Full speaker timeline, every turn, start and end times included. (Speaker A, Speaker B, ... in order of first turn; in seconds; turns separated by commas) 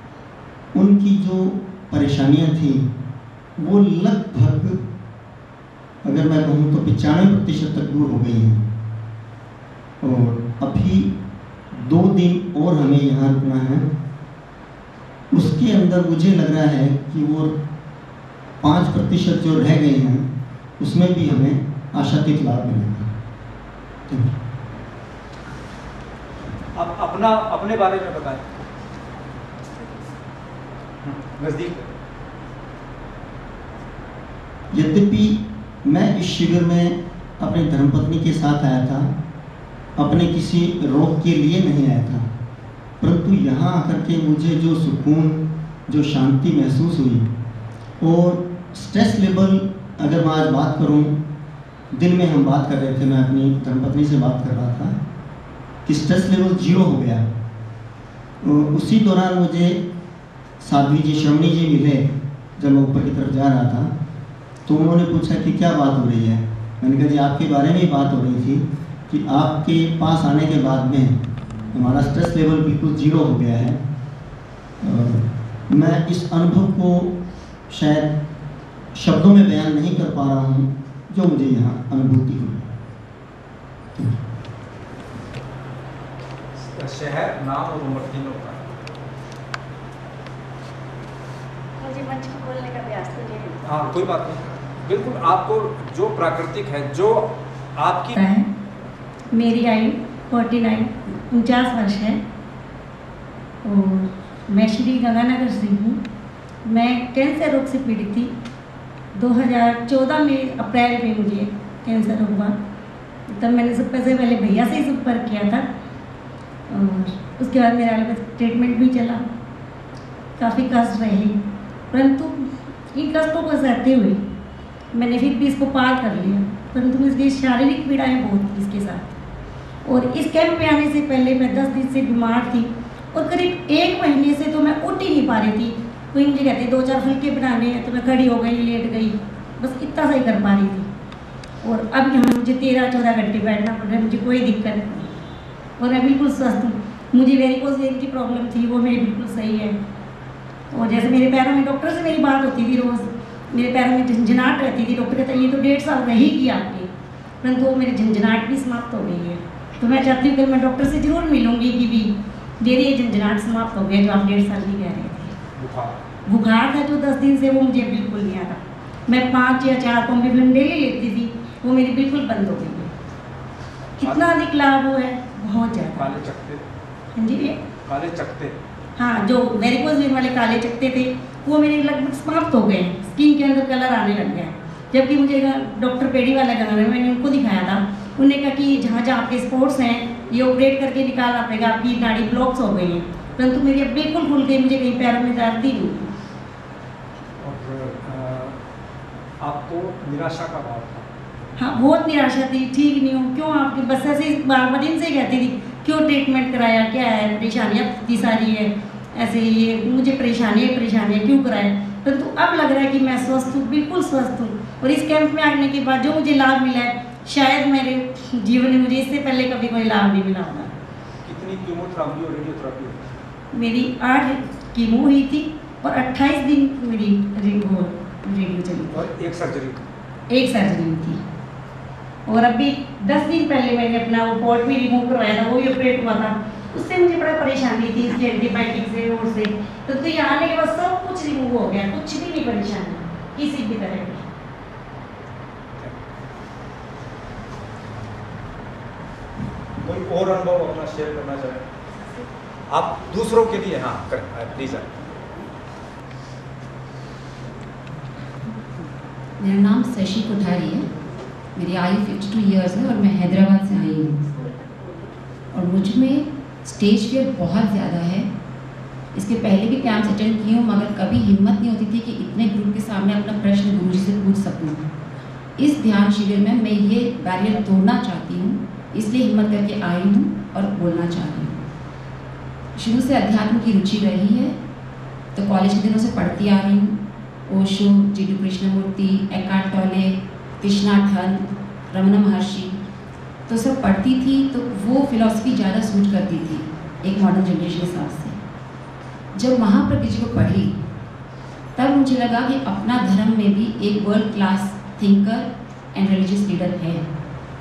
Speaker A: 0.7-2.9, Speaker A: 3.6-4.8, Speaker A: 6.0-8.6, Speaker A: 10.0-11.1, Speaker A: 11.7-13.8, Speaker A: 15.3-17.6, Speaker A: 18.6-20.3, Speaker A: 20.8-23.1, Speaker B: 26.7-28.4, Speaker B: 31.0-31.9, Speaker A: 34.7-39.1, Speaker A: 40.0-42.3, Speaker A: 43.0-47.3, Speaker A: 48.0-51.1, Speaker A: 51.9-54.9, Speaker A: 55.9-57.2, Speaker A: 58.4-59.8, Speaker A: 60.6-63.9, Speaker A: 64.7-71.2, Speaker A: 71.7-73.8, Speaker A: 74.8-77.1, Speaker A: 77.7-78.1, Speaker A: 78.9-82.7, Speaker B: 86.7-88.6, Speaker C: 91.8-93.8, Speaker B: 93.6-98.1, Speaker D: 98.1-98.5, Speaker D: 99.3-102.2, Speaker D: 103.6-106.0, Speaker D: 106.7-108.3, Speaker D: 109.1-112.5, Speaker D: 113.3-115.7, Speaker D: 116.7-119.2, Speaker D: 120.4-121.3, Speaker D: 121.9-122.3, Speaker D: 122.9-124.2, Speaker D: 124.9-129.1, Speaker D: 129.8-140.9, Speaker D: 141.6-145.1, Speaker D: 145.8-149.7, Speaker D: 150.7-156.9, Speaker D: 157.4-165.3, Speaker B: 165.6-166.0, Speaker D: 166.3-172.9, Speaker D: 174.0-176.2, Speaker B: 174.0-174.3, Speaker B: 175.9-176.6, Speaker D: 177.2-177.6, Speaker B: 177.8-178.6, Speaker D: 179.0-196.1, Speaker B: 197.4-198.6, Speaker B: 199.4-201.1, Speaker D: 201.6-220.7, Speaker B: 221.2-223.0, Speaker D: 223.5-229.1, Speaker B: 228.9-229.8, Speaker D: 230.3-231.2, Speaker D: 232.2-244.2, Speaker B: 249.8-251.6, Speaker B: 252.7-255.0, Speaker E: 259.4-260.9, Speaker E: 261.6-264.2, Speaker E: 265.5-268.3, Speaker E: 269.1-274.8, Speaker E: 275.6-281.7, Speaker E: 282.8-284.5, Speaker E: 285.4-286.9, Speaker E: 287.5-292.8, Speaker E: 293.5-298.4, Speaker E: 299.3-300.8, Speaker E: 301.8-307.0